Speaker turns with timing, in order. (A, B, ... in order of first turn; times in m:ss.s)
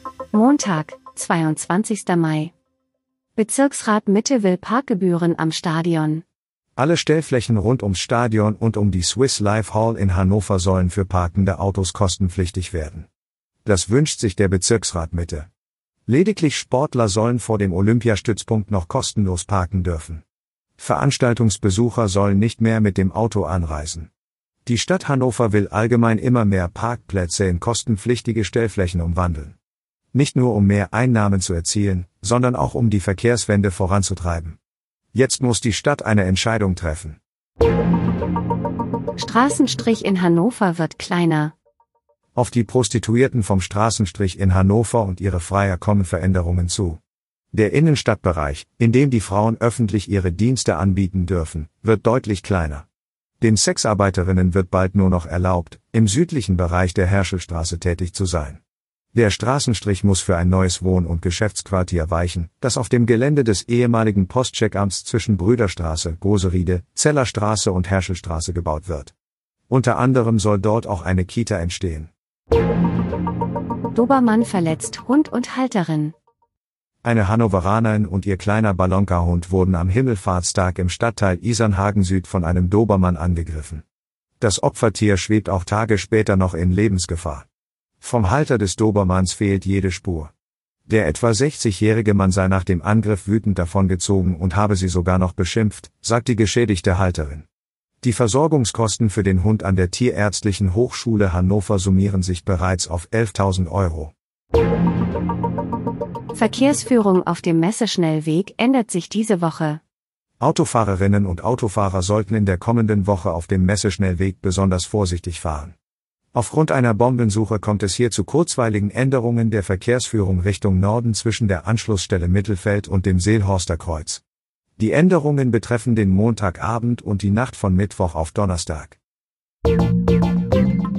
0:00.3-0:02.5 A
0:03.4-0:06.2 A
0:06.8-0:13.1 B
0:13.6-0:15.5 B
0:16.1-0:20.2 B
0:20.8-0:24.1 B
0:24.6-0:29.6 B
0:30.1-0:34.6 B
0:35.1-0:37.2 B
0:39.2-0:41.5 A
0:42.3-0:47.0 B
0:47.5-0:52.9 B
0:53.4-0:58.6 B
0:59.1-1:09.1 B
1:09.7-1:12.1 B
1:13.9-1:16.1 A
1:17.0-1:23.8 B
1:24.4-1:27.4 B
1:28.0-1:30.3 B
1:30.9-1:37.4 B
1:38.0-1:44.1 B
1:46.3-1:49.8 A
1:50.4-1:55.7 B
1:56.3-2:04.2 B
2:04.8-2:09.0 B